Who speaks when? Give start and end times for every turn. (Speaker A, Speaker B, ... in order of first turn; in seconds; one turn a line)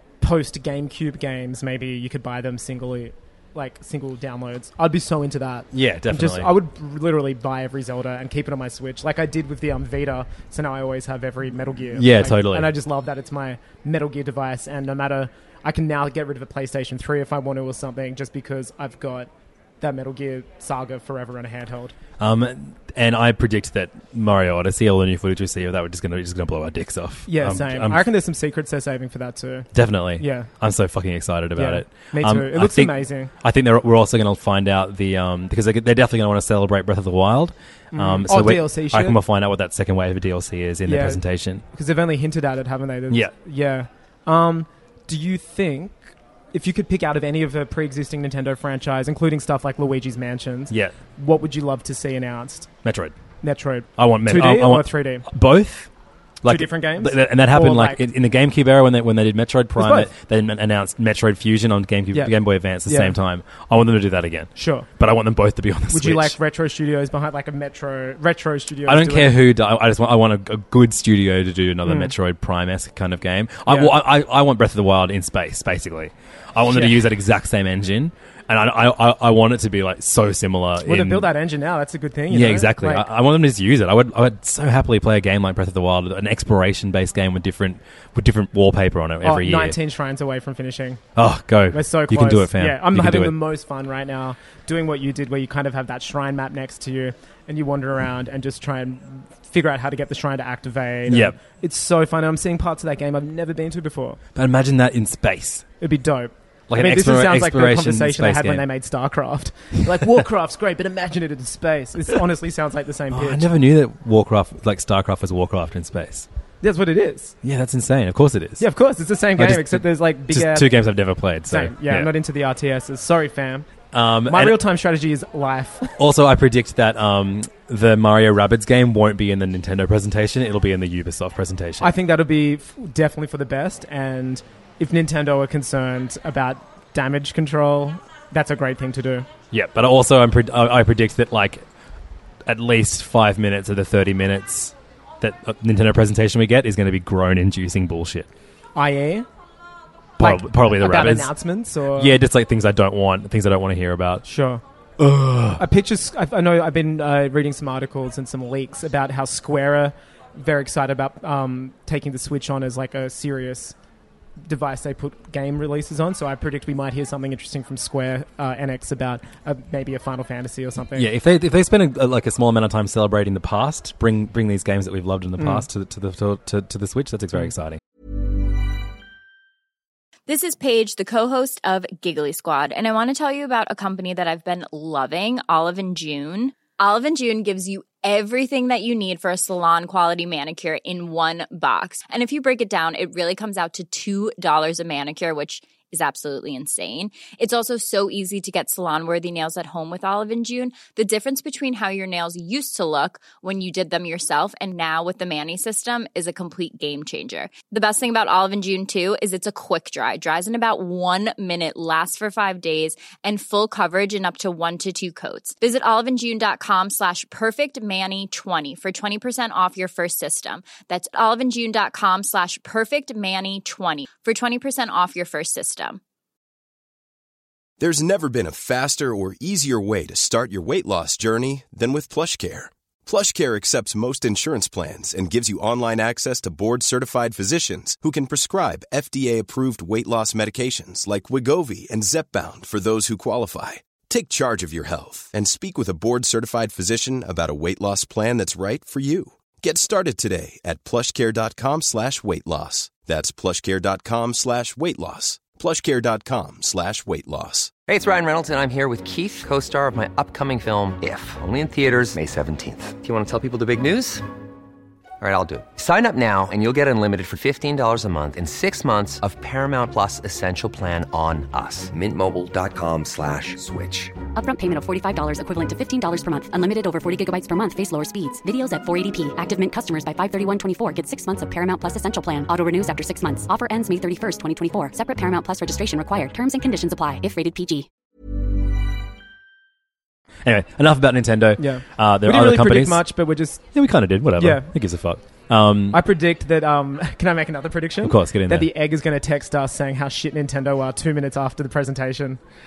Speaker A: 0.2-19.3
Speaker B: 5.7-6.5
Speaker B: 11.9-12.7
Speaker A: 19.8-21.9
Speaker B: 22.2-28.0
Speaker A: 27.3-30.5
Speaker B: 29.7-41.6
Speaker A: 31.6-33.3
Speaker A: 37.9-39.2
Speaker A: 40.9-52.7
Speaker B: 52.9-53.1
Speaker A: 53.4-55.3
Speaker B: 54.0-55.9
Speaker B: 56.4-66.4
Speaker A: 56.5-58.0
Speaker A: 59.8-60.1
Speaker A: 62.9-63.1
Speaker A: 64.6-64.9
Speaker A: 65.9-69.3
Speaker B: 68.9-81.3
Speaker A: 71.9-72.1
Speaker A: 73.7-73.9
Speaker A: 76.7-77.0
Speaker A: 80.8-83.1
Speaker B: 82.3-89.8
Speaker A: 89.2-91.0
Speaker B: 91.2-93.3
Speaker A: 91.7-104.2
Speaker B: 101.1-101.4
Speaker B: 104.3-105.7
Speaker A: 105.8-113.5
Speaker B: 106.7-108.7
Speaker B: 113.1-116.3
Speaker A: 116.6-117.3
Speaker B: 117.4-118.7
Speaker A: 118.6-120.8
Speaker B: 119.4-122.1
Speaker A: 121.5-123.7
Speaker B: 123.9-124.6
Speaker A: 124.3-126.0
Speaker B: 126.0-131.9
Speaker A: 131.8-139.3
Speaker B: 139.5-141.6
Speaker B: 142.5-148.3
Speaker A: 148.8-149.3
Speaker B: 150.2-151.3
Speaker A: 150.2-152.1
Speaker B: 151.9-154.2
Speaker A: 154.2-154.6
Speaker B: 155.0-155.6
Speaker A: 155.6-163.8
Speaker A: 164.4-171.1
Speaker B: 170.9-177.8
Speaker A: 175.4-175.7
Speaker C: 180.3-226.0
Speaker D: 227.8-257.7
Speaker E: 257.9-264.3
Speaker E: 265.2-274.2
Speaker F: 274.4-287.9
Speaker B: 290.4-293.1
Speaker A: 291.6-293.6
Speaker B: 293.7-296.0
Speaker A: 294.4-294.7
Speaker A: 295.9-302.4
Speaker B: 298.0-298.7